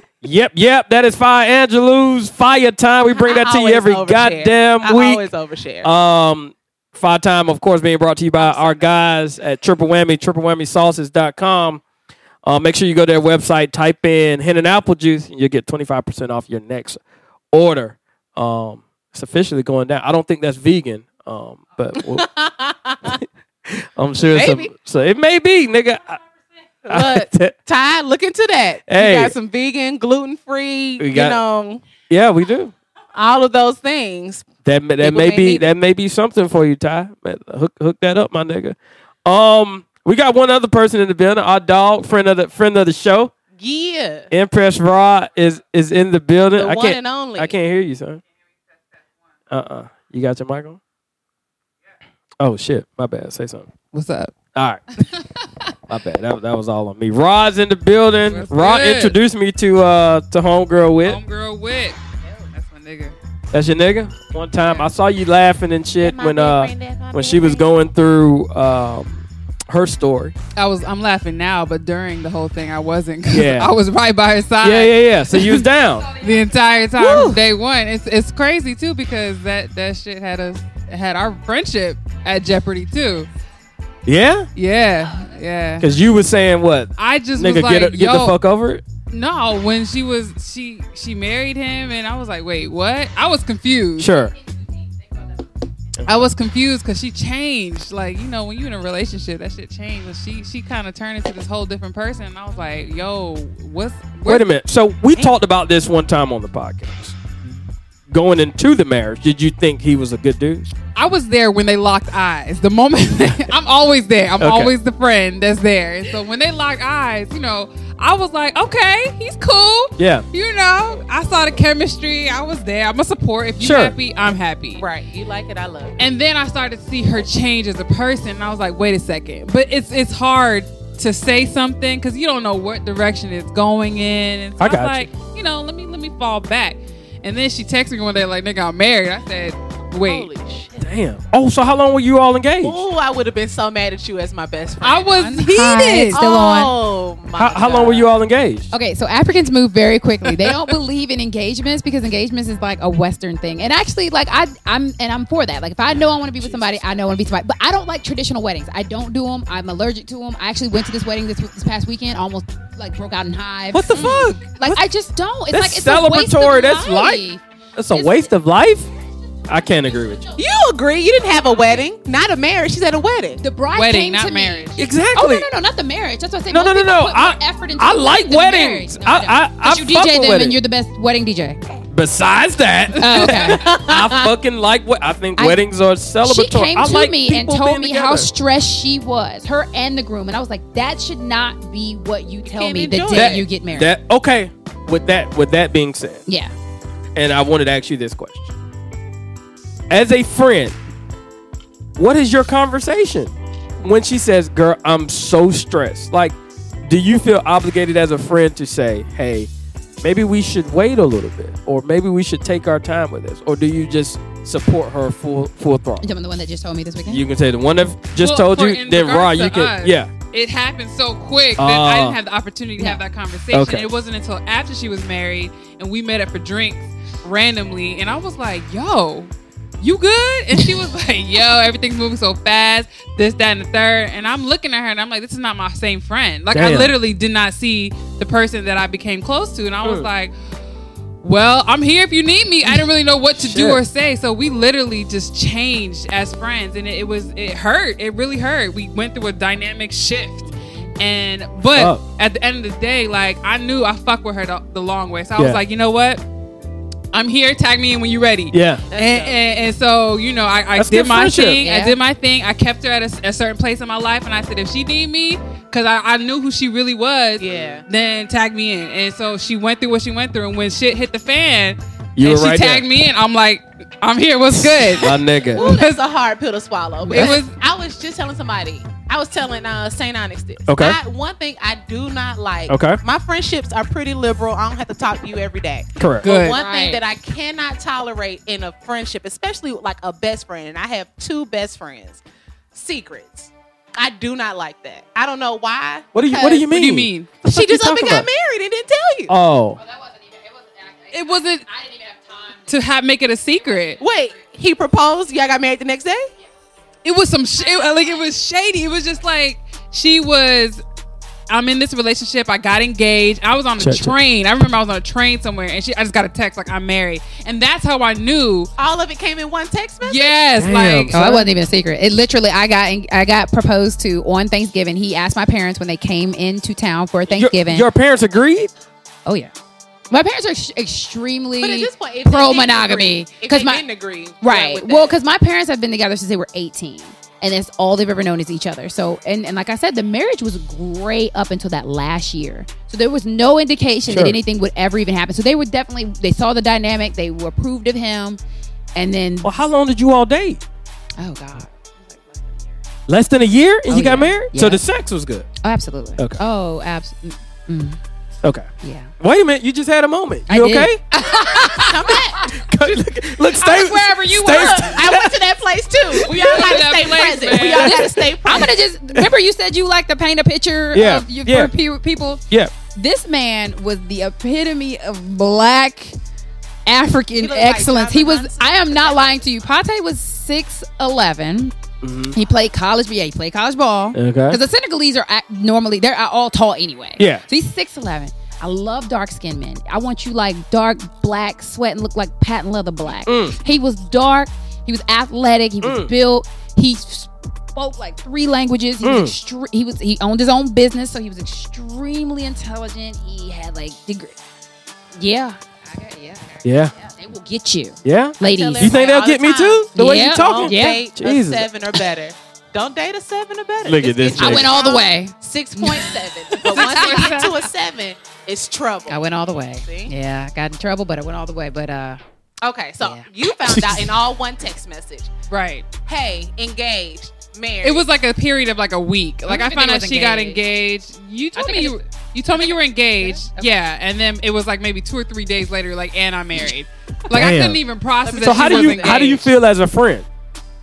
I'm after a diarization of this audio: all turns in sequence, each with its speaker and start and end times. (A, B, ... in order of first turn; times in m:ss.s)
0:00.2-0:05.2 A
0:03.1-0:05.9 B
0:05.8-0:11.8 A
0:08.4-0:09.0 B
0:12.4-0:17.0 A
0:17.5-0:22.3 A
0:22.1-0:23.2 B
0:23.1-0:26.2 A
0:24.3-0:24.7 B
0:26.9-0:31.8 B
0:26.9-0:27.5 A
0:28.9-0:29.3 A
0:31.0-0:31.4 A
0:32.1-0:32.7 A
0:33.1-0:34.4 B
0:34.6-0:43.3 A
0:35.0-0:35.7 B
0:43.6-0:44.3 B
0:44.3-0:48.2 A
0:46.6-0:47.5 B
0:49.5-0:50.8 A
0:52.4-0:53.7 A
0:53.9-0:54.3 C
0:54.6-0:54.8 A
0:55.9-1:01.2 A
0:58.2-0:59.2 C
1:01.0-1:03.2 C
1:03.5-1:10.4 A
1:06.0-1:07.7 B
1:10.6-1:15.6 C
1:13.3-1:13.7 A
1:14.6-1:16.1 A
1:16.2-1:23.3 C
1:17.0-1:17.4 B
1:24.1-1:24.5 A
1:24.6-1:25.8 C
1:25.8-1:28.8 A
1:27.0-1:28.4 C
1:29.1-1:34.1 C
1:34.0-1:34.3 A
1:36.0-1:36.3 A
1:36.1-1:44.4 C
1:44.2-1:47.2 A
1:48.1-1:50.7 A
1:51.0-2:04.8 C
1:54.4-1:54.7 A
2:00.0-2:00.3 A
2:03.6-2:04.0 A
2:04.8-2:06.0 B
2:06.0-2:20.3 C
2:14.6-2:15.1 A
2:20.1-2:20.8 B
2:20.8-2:22.8 A
2:22.6-2:25.4 B
2:24.8-2:26.6 C
2:25.1-2:26.7 D
2:26.1-2:28.1 B
2:27.4-2:28.7 A
2:28.7-2:48.3 D
2:36.4-2:36.9 B
2:43.7-2:44.8 A
2:43.9-2:44.3 B
2:45.5-2:47.2 A
2:47.8-2:48.9 A
2:49.5-2:50.3 A
2:50.4-2:53.4 B
2:53.4-3:01.6 D
2:53.7-2:54.8 C
2:54.8-2:55.5 A
2:56.5-3:00.6 A
3:01.9-3:08.3 A
3:03.0-3:03.6 D
3:03.7-3:04.0 B
3:06.2-3:13.9 D
3:12.5-3:13.4 B
3:13.1-3:16.2 A
3:16.3-3:16.5 D
3:17.2-3:18.5 A
3:19.9-3:20.8 A
3:22.0-3:29.5 A
3:30.0-3:36.1 A
3:36.0-3:37.2 D
3:37.1-3:40.1 A
3:38.2-4:00.3 C
3:41.6-3:42.2 A
3:42.8-3:43.0 D
3:43.5-3:43.9 A
3:56.5-3:57.0 A
3:59.8-4:00.1 A
4:01.2-4:10.5 C
4:03.4-4:03.8 A
4:11.0-4:16.2 C
4:11.7-4:12.0 A
4:15.4-4:15.6 A
4:17.1-4:36.0 C
4:18.5-4:18.8 A
4:18.9-4:19.5 B
4:20.8-4:21.7 A
4:21.6-4:22.0 D
4:27.4-4:27.8 B
4:32.2-4:32.9 A
4:34.6-4:35.7 A
4:35.6-4:56.7 B
4:37.1-4:37.6 C
4:40.7-4:41.0 A
4:42.7-4:43.0 A
4:46.0-4:46.3 A
4:46.2-4:46.6 C
4:46.5-4:47.0 D
4:56.1-4:58.3 A
4:56.7-4:57.4 C
4:57.4-4:59.3 B
4:59.3-4:59.8 A
5:01.1-5:01.8 C
5:02.7-5:04.0 C
5:04.0-5:06.3 B
5:07.0-5:10.8 C
5:11.5-5:18.7 C
5:13.8-5:14.2 A
5:18.8-5:20.5 B
5:20.0-5:21.5 C
5:20.6-5:21.2 A
5:21.1-5:27.9 D
5:27.3-5:28.7 A
5:29.3-5:29.5 D
5:30.1-5:33.8 D
5:31.6-5:35.2 B
5:34.4-5:48.4 D
5:44.1-5:44.4 A
5:49.0-5:49.7 D
5:49.4-5:50.6 A
5:51.2-5:52.5 D
5:53.1-5:55.5 A
5:53.9-5:54.8 D
5:55.6-5:58.0 D
5:58.8-5:59.1 D
5:59.2-6:01.0 A
6:00.5-6:02.2 D
6:01.3-6:02.4 B
6:02.7-6:05.3 A
6:03.7-6:08.7 B
6:04.2-6:04.7 C
6:06.2-6:08.0 C
6:07.7-6:12.4 D
6:10.9-6:11.7 A
6:13.0-6:16.2 D
6:16.9-6:21.7 D
6:17.4-6:19.5 B
6:22.0-6:22.4 A
6:22.3-6:44.4 D
6:24.1-6:24.6 A
6:27.2-6:27.4 A
6:33.3-6:33.6 A
6:35.8-6:36.1 A
6:39.0-6:39.3 A
6:45.2-6:49.0 D
6:46.6-6:46.9 A
6:48.0-6:51.7 A
6:48.4-6:59.2 B
6:50.0-6:51.0 D
6:53.8-6:54.7 A
6:54.4-6:56.1 D
6:56.7-6:57.6 C
6:56.7-6:57.5 D
6:59.1-7:02.2 D
6:59.8-7:00.1 B
7:02.6-7:05.3 B
7:03.0-7:03.3 D
7:03.7-7:04.1 A
7:05.5-7:05.9 C
7:06.1-7:08.1 B
7:07.8-7:19.5 C
7:09.5-7:10.5 B
7:09.7-7:10.6 D
7:11.6-7:12.0 D
7:17.3-7:17.8 A
7:18.2-7:19.4 B
7:18.4-7:20.3 A